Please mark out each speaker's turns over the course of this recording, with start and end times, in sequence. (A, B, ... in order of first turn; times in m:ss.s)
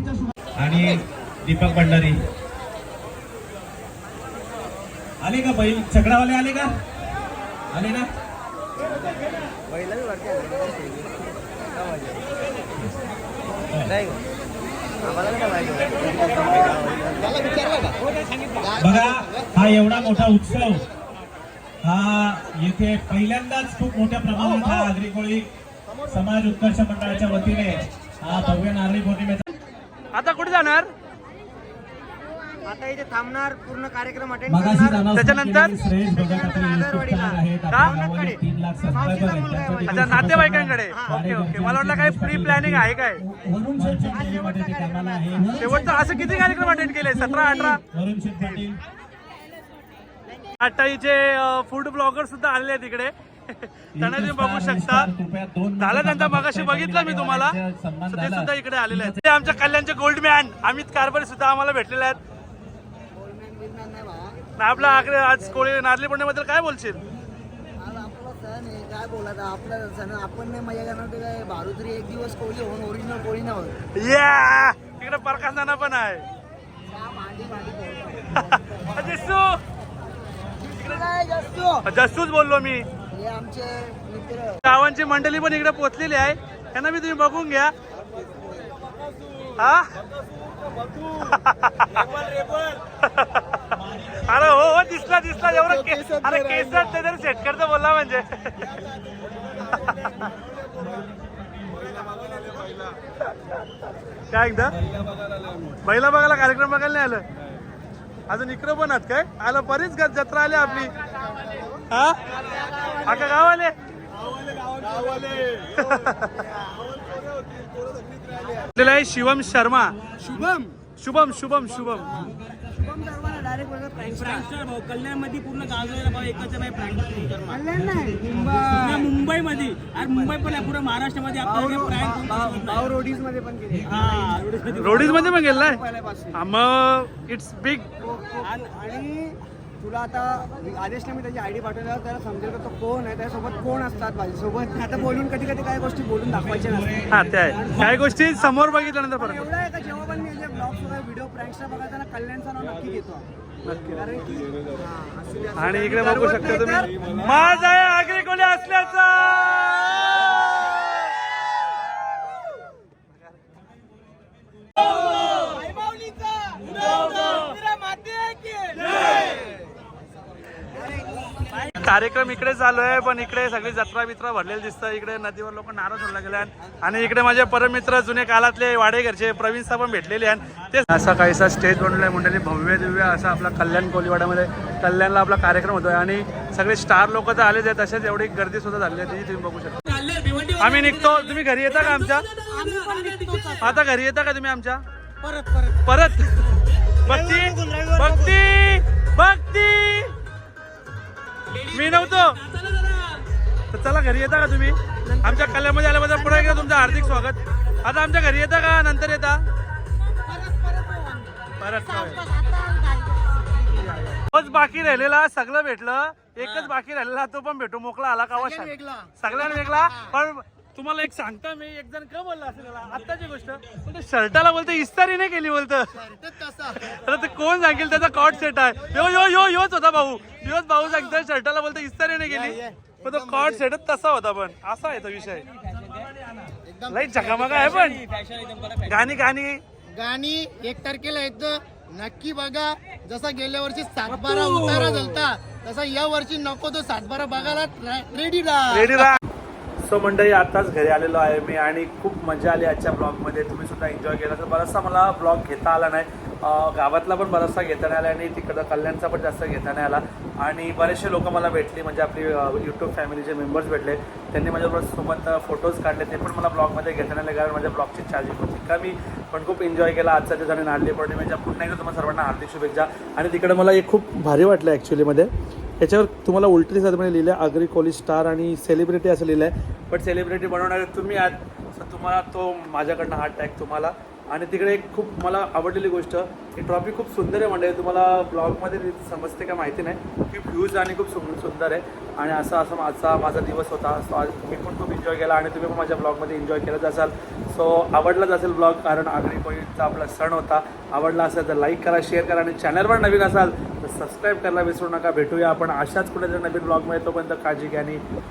0:00.6-0:02.2 A
0:05.2-0:06.7 A
0:07.7-0:08.1 A
0:10.0-0:10.6 B
0:16.0-0:17.9 B
0:18.8-0:20.8 A
0:21.8-0:25.5 A
0:26.1-0:29.5 A
0:30.1-0:30.9 C
0:32.6-0:35.0 B
0:34.5-0:48.8 A
0:35.1-0:35.8 C
0:36.2-0:37.4 B
0:37.7-0:38.1 C
0:37.9-0:40.2 B
0:39.8-0:43.2 C
0:40.9-0:41.2 B
0:43.8-0:45.5 B
0:45.6-0:47.8 C
0:50.6-0:55.1 C
0:54.0-0:59.2 A
0:55.8-0:57.6 C
0:58.1-1:02.2 C
1:03.1-1:05.7 B
1:04.6-1:07.0 C
1:07.8-1:13.7 B
1:13.9-1:16.2 C
1:16.9-1:18.3 B
1:18.4-1:19.6 C
1:20.6-1:21.8 B
1:21.9-1:22.9 C
1:23.1-1:24.6 B
1:24.6-1:27.7 C
1:29.6-1:29.9 C
1:31.2-1:32.2 C
1:33.0-1:38.7 C
1:35.8-1:36.4 B
1:39.7-1:40.3 C
1:44.3-1:44.8 C
1:45.8-1:47.2 C
1:48.3-1:50.9 C
1:51.9-1:52.2 C
1:52.6-1:53.2 B
1:53.0-1:53.7 C
1:54.3-1:55.6 B
1:55.7-1:56.5 C
1:57.0-1:58.7 B
1:58.8-2:00.0 C
2:00.2-2:00.7 B
2:01.0-2:02.1 C
2:01.9-2:04.5 B
2:04.0-2:07.6 D
2:07.5-2:09.1 B
2:08.7-2:13.0 D
2:11.4-2:16.4 B
2:13.9-2:15.4 D
2:14.7-2:15.8 C
2:16.4-2:17.9 C
2:18.0-2:27.0 B
2:26.9-2:27.9 A
2:27.1-2:29.5 C
2:29.2-2:33.3 B
2:33.6-2:34.0 C
2:33.9-2:37.4 B
2:35.6-2:40.4 C
2:45.5-2:48.8 B
2:51.8-3:09.8 C
3:09.8-3:13.8 D
3:10.6-3:12.3 C
3:12.5-3:13.8 B
3:13.6-3:14.8 C
3:15.2-3:15.8 B
3:15.9-3:16.4 C
3:17.1-3:20.1 C
3:17.1-3:18.3 B
3:21.7-3:23.1 D
3:21.7-3:22.4 C
3:23.7-3:29.4 C
3:25.1-3:27.3 B
3:30.3-3:31.3 B
3:31.6-3:32.2 C
3:31.8-3:34.2 B
3:34.3-3:45.9 C
3:36.4-3:36.7 B
3:38.3-3:40.1 B
3:45.9-3:46.8 B
3:46.9-3:55.5 C
3:52.3-3:53.6 B
3:56.6-3:57.8 B
3:56.9-3:58.0 C
3:58.8-3:59.6 C
3:59.9-4:09.2 B
4:04.2-4:04.5 D
4:08.7-4:09.2 C
4:09.8-4:35.3 C
4:35.8-5:08.0 C